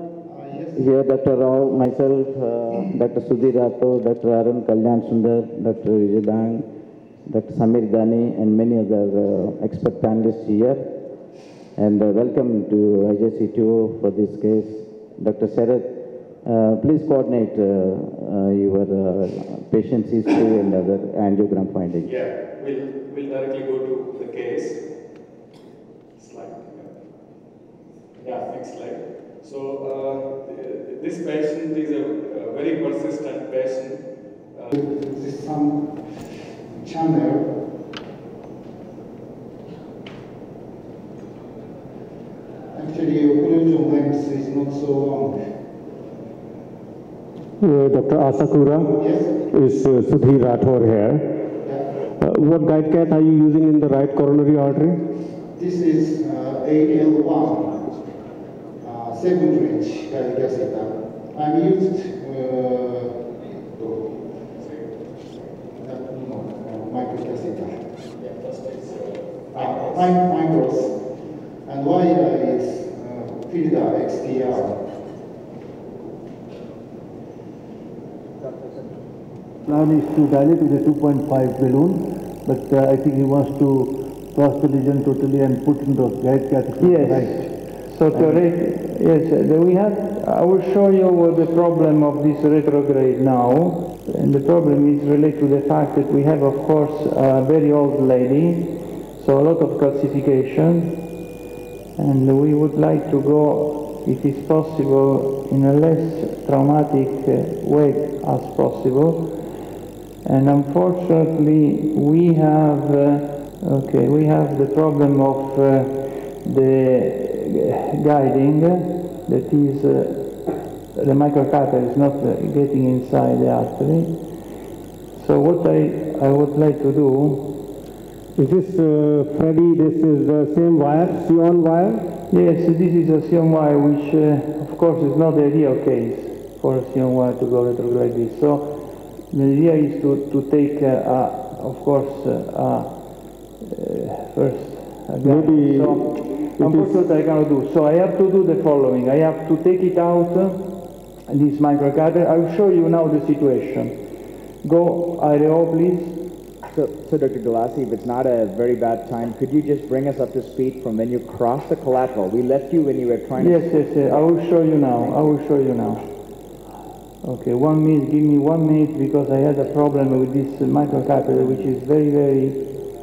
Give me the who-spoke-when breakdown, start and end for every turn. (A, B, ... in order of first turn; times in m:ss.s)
0:00.2-0:00.8 A
0:00.8-0:06.7 B
0:07.2-0:11.0 B
0:11.8-0:22.1 B
0:22.0-0:24.8 C
0:26.2-0:26.9 C
0:28.2-0:34.0 C
0:34.7-0:37.5 A
0:42.7-0:45.4 A
0:47.6-0:51.4 D
0:49.0-0:49.4 A
0:51.6-0:51.9 A
0:52.2-0:55.0 D
0:55.6-0:57.8 A
0:58.8-1:03.2 A
1:05.8-1:07.7 A
1:08.5-1:09.1 C
1:09.5-1:11.1 A
1:11.6-1:14.8 A
1:19.6-1:28.4 E
1:26.8-1:41.0 F
1:42.0-1:49.6 F
1:50.2-2:04.3 F
2:05.1-2:07.6 F
2:08.4-2:12.1 D
2:12.3-2:34.0 F
2:25.2-2:27.0 D
2:34.6-2:36.2 F
2:36.7-2:45.4 G
2:43.4-2:46.1 F
2:47.2-2:52.7 F